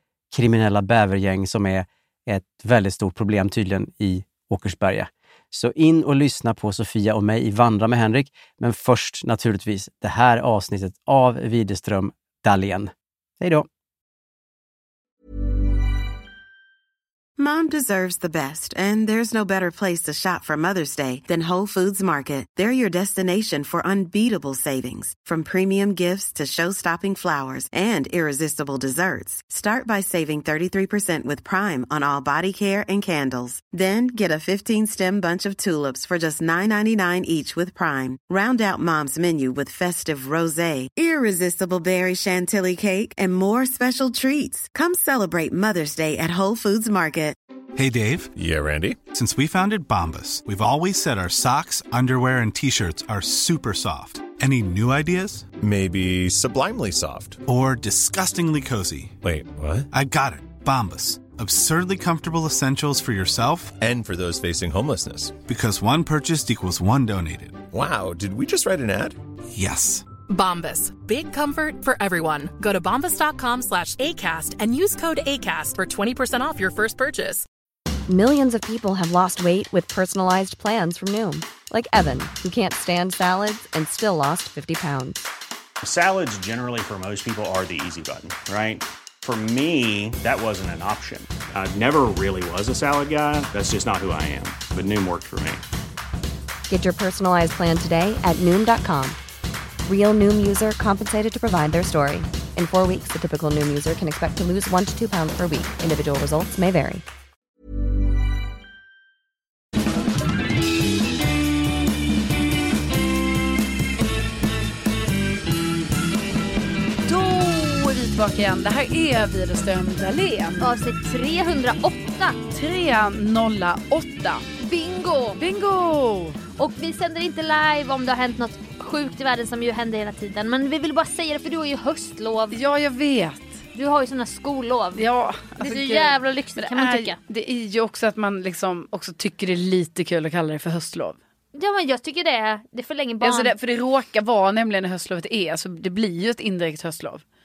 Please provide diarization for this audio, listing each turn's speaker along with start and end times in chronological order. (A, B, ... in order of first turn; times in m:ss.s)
0:00.3-0:13.7 A
0:17.4-0:47.4 B
0:47.8-0:48.3 C
0:48.4-0:49.0 D
0:49.0-0:55.5 C
0:55.6-0:57.4 D
0:57.4-0:59.2 C
0:59.2-0:59.9 D
0:59.9-1:03.8 C
1:03.8-1:05.4 D
1:05.4-1:07.6 C
1:07.7-1:09.2 D
1:09.5-1:10.0 C
1:10.3-1:17.4 E
1:18.1-1:25.3 F
1:25.8-1:35.6 G
1:36.7-1:39.2 F
1:39.8-1:47.0 F
1:57.0-2:00.7 H
2:00.6-2:02.4 I
2:02.5-2:04.5 H
2:04.6-2:05.4 I
2:05.4-2:06.4 H
2:06.6-2:12.6 I
2:12.5-2:13.6 H
2:13.7-2:15.0 I
2:14.9-2:21.2 H
2:15.6-2:17.2 I
2:21.5-2:23.5 I
2:23.2-2:27.2 H